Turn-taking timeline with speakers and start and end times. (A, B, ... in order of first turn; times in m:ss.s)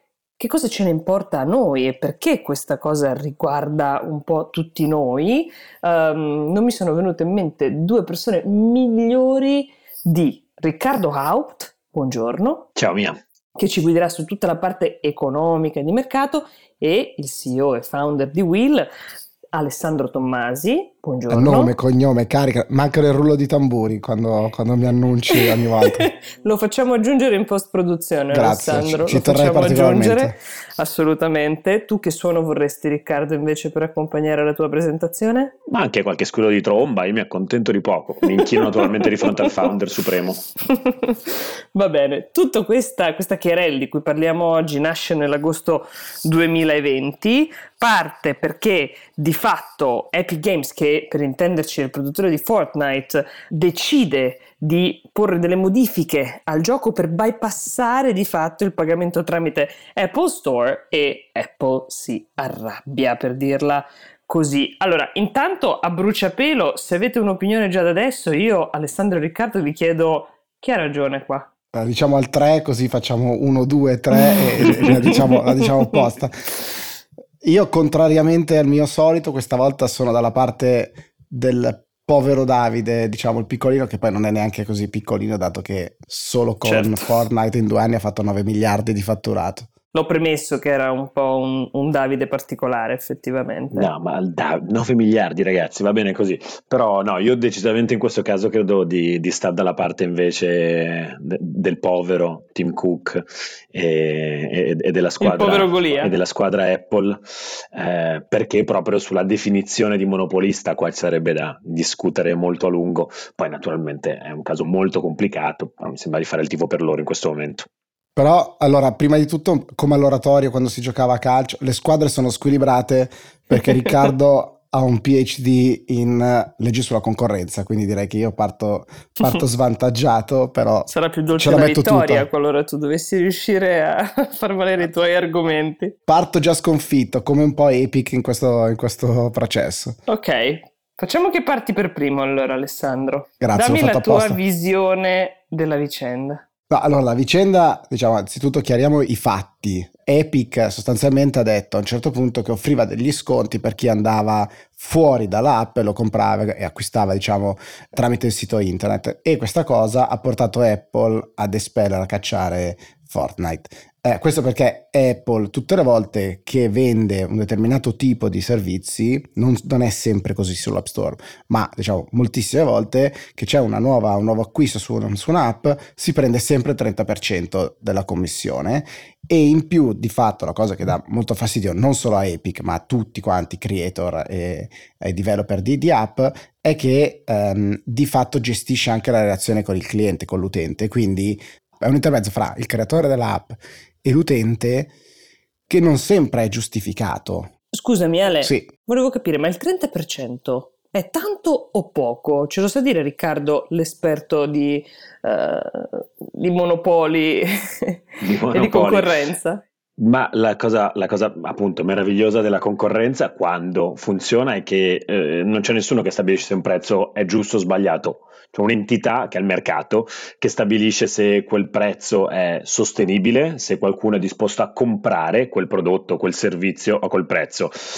0:00.4-0:12.7 A
0:12.8-0:13.2 B
0:13.6-0:18.9 A
0:19.5-0:21.7 A
0:21.3-0:26.1 C
0:26.1-0:35.5 A
0:28.3-0:30.3 C
0:35.7-0:40.4 B
0:38.3-0:39.3 A
0:40.6-1:11.5 A
1:11.7-1:16.8 C
1:14.6-1:15.2 A
1:17.4-1:29.7 C
1:26.6-1:27.1 B
1:29.9-1:33.9 A
1:33.7-1:47.2 B
1:45.2-1:46.1 A
1:47.7-1:57.7 B
1:58.2-2:12.3 C
2:10.9-2:15.9 A
2:16.1-2:20.0 C
2:20.1-2:26.4 A
2:23.4-2:24.4 C
2:26.7-3:14.9 C
3:15.7-3:17.5 C
3:17.7-3:29.6 A
3:18.4-3:18.7 C
3:28.2-3:29.2 B
3:30.0-3:47.7 B